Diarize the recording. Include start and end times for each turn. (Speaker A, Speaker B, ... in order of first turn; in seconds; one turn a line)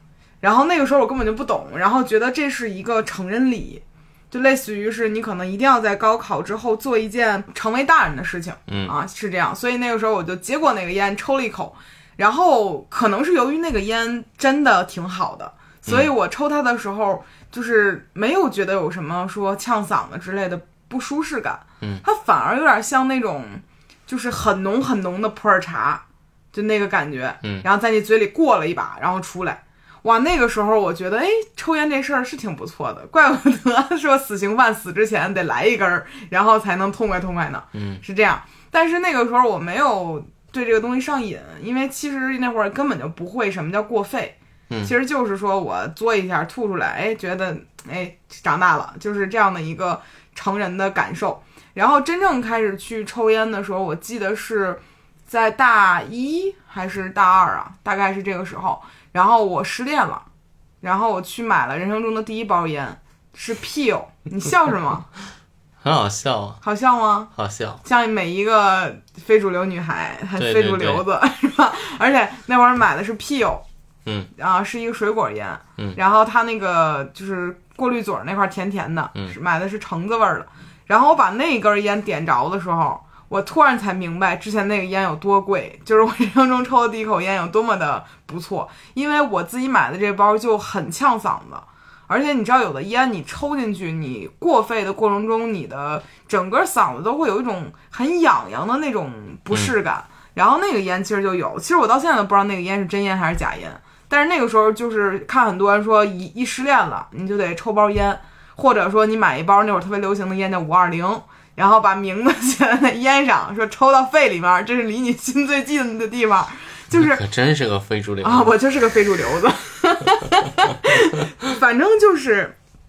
Speaker A: 0.4-60.2
Speaker B: 8.7-8.9
Speaker B: 37.7-38.0
Speaker A: 60.8-65.1
Speaker B: 65.8-66.6
Speaker A: 66.6-67.3
Speaker B: 67.3-67.8
Speaker A: 67.8-73.6
Speaker B: 70.4-71.0
Speaker A: 74.3-117.2
Speaker B: 116.9-118.5
Speaker A: 118.2-122.5